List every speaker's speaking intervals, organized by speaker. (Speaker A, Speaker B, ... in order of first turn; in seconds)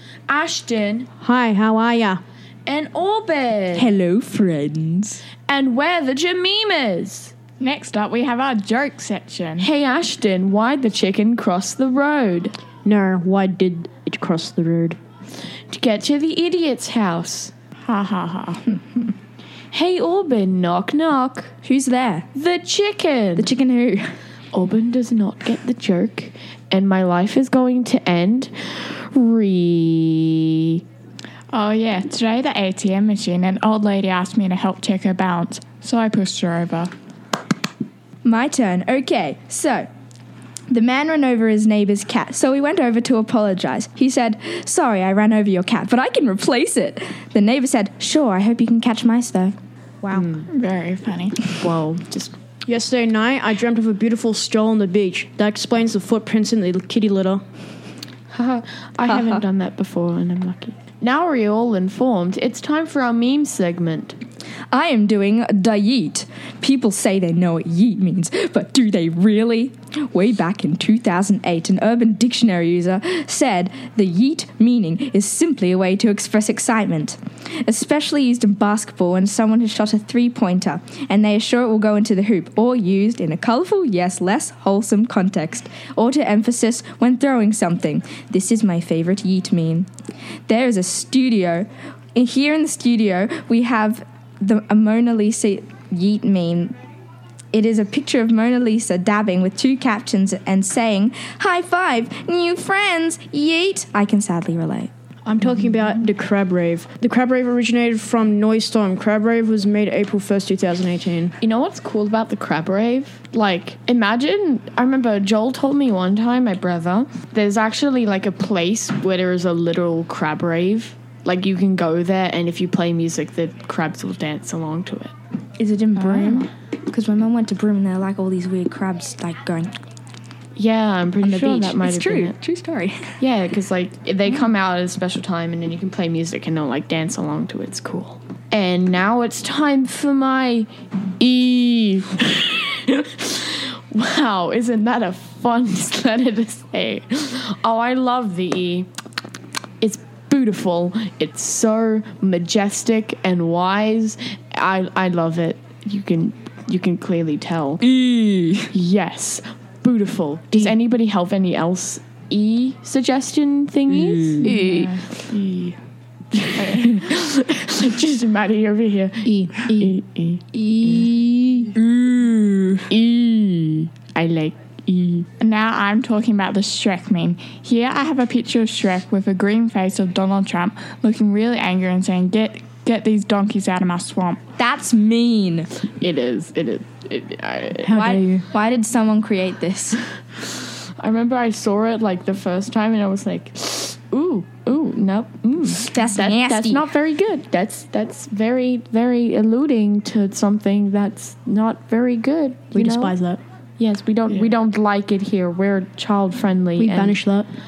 Speaker A: 0.3-1.1, 2.7-3.9, 5.5-7.3, 9.6-12.5, 15.7-17.5, 19.7-21.5, 22.3-23.5, 24.5-30.8, 50.1-50.5, 51.5-52.4, 58.3-64.2, 111.4-125.1, 130.6-132.3, 133.2-140.7, 141.2-148.9, 149.8-157.8, 158.7-165.0, 166.3-171.1, 172.9-175.3, 186.0-188.0, 191.0-203.2, 203.8-207.2
Speaker B: 1.2-2.2, 12.8-15.0, 52.7-57.4, 105.2-111.3, 169.2-169.9, 187.8-188.4, 202.7-203.4, 206.8-207.5
Speaker C: 3.7-5.2, 21.6-22.2, 23.4-24.1, 38.2-39.9, 40.7-49.5, 59.1-59.4, 64.7-89.9, 90.5-96.7, 97.5-104.9, 125.6-129.8, 131.2-133.1, 157.8-158.7, 163.9-164.5, 170.5-172.9, 184.6-185.7, 187.9-190.0, 195.8-196.8
Speaker D: 7.6-9.7, 17.9-18.8, 31.5-36.9, 50.5-51.5, 126.0-126.4, 164.4-165.8, 166.6-166.9, 175.4-184.4